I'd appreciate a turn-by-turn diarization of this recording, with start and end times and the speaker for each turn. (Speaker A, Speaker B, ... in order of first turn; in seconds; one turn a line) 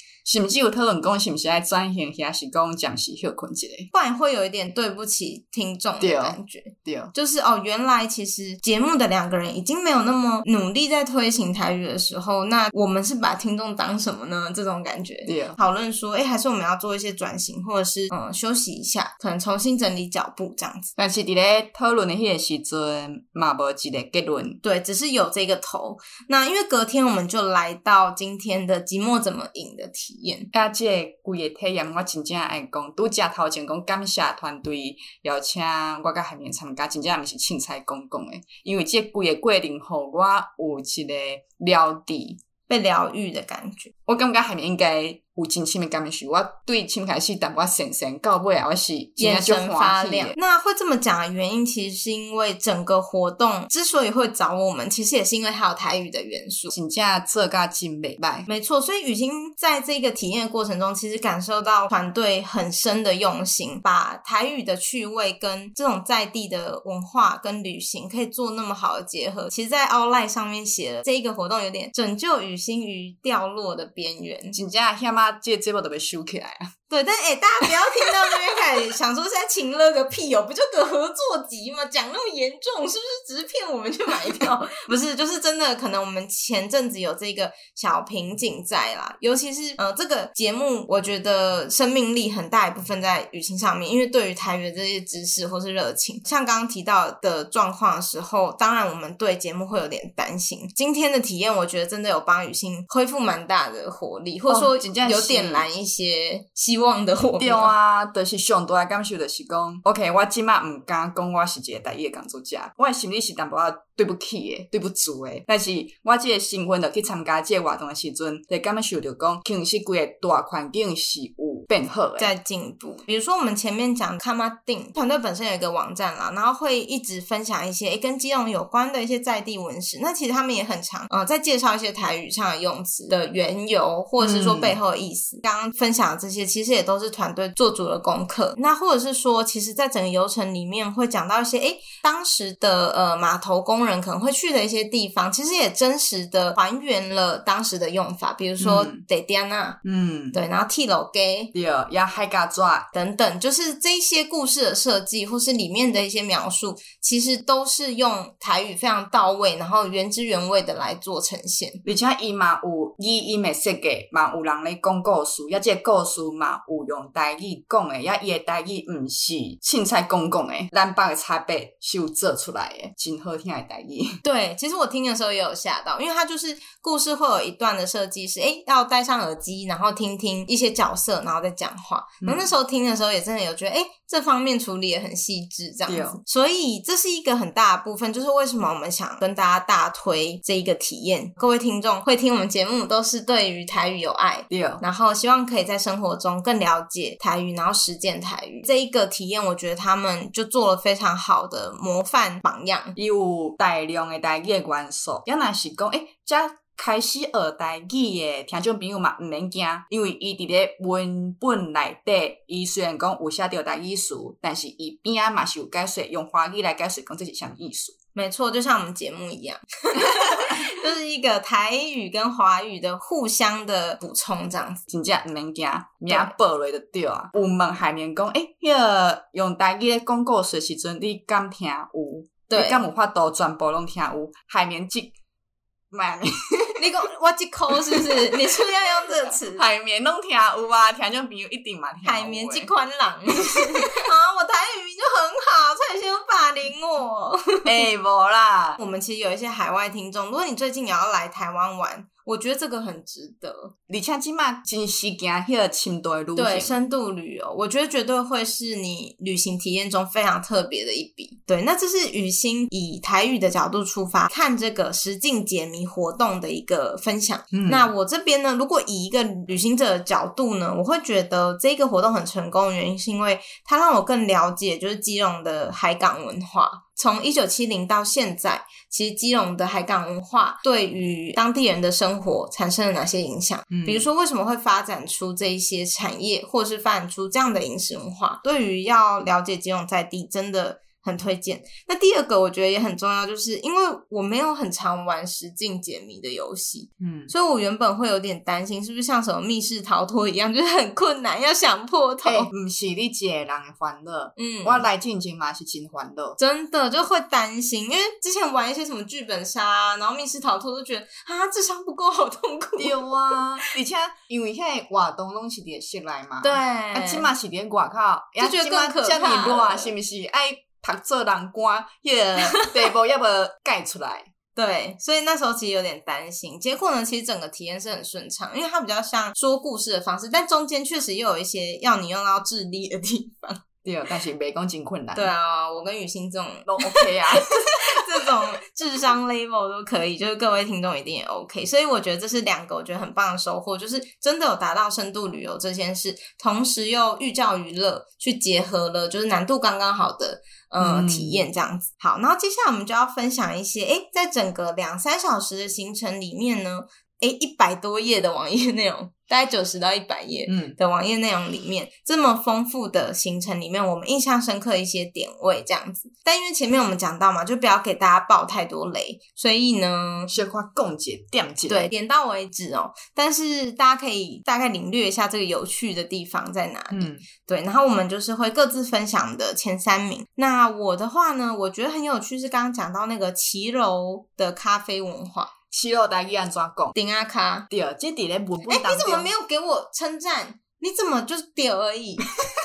Speaker A: 0.2-3.9
Speaker B: 3.9-20.9
Speaker A: 6.0-7.1
Speaker A: 15.3-15.6
Speaker A: 21.0-24.6
Speaker B: 24.6-30.5
Speaker A: 30.5-42.4
Speaker B: 42.7-43.9
Speaker A: 44.1-50.4
Speaker B: 49.2-56.7
Speaker A: 56.7-58.5
Speaker B: 58.5-74.6
Speaker A: 74.5-76.7
Speaker B: 76.9-107.7
Speaker A: 104.5-105.7
Speaker A: 107.4-122.3
Speaker B: 122.2-149.8
Speaker A: 134.2-134.8
Speaker A: 148.6-149.0
Speaker A: 149.8-150.4
Speaker B: 150.3-151.5
Speaker A: 151.5-152.9
Speaker B: 152.9-161.8
Speaker A: 161.8-174.2
Speaker B: 174.2-202.9
Speaker A: 182.2-182.5
Speaker A: 185.9-186.2
Speaker A: 194.5-194.8
Speaker A: 202.9-217.9
Speaker B: 218.1-224.8
Speaker A: 220.1-220.6
Speaker A: 224.9-235.1
Speaker B: 232.5-232.8
Speaker A: 235.9-236.9
Speaker B: 236.8-239.7
Speaker A: 237.7-238.6
Speaker A: 239.5-242.7
Speaker B: 242.0-247.8
Speaker A: 243.4-243.9
Speaker A: 247.6-248.8
Speaker B: 248.8-253.7
Speaker A: 253.9-256.8
Speaker B: 256.4-302.5
Speaker A: 267.5-267.9
Speaker A: 283.7-284.1
Speaker A: 297.0-297.3
Speaker A: 302.2-306.4
Speaker B: 304.4-304.9
Speaker B: 306.4-313.7
Speaker A: 312.8-324.3
Speaker B: 316.4-317.3
Speaker B: 318.4-319.9
Speaker B: 322.4-322.8
Speaker B: 324.6-333.6
Speaker A: 333.8-335.3
Speaker B: 335.1-370.3
Speaker A: 336.6-338.0
Speaker A: 350.8-351.5
Speaker A: 360.5-360.8
Speaker A: 370.3-371.9
Speaker B: 371.7-385.5
Speaker A: 376.9-377.3
Speaker A: 385.7-386.9
Speaker B: 386.9-387.7
Speaker A: 387.7-389.3
Speaker B: 388.7-392.3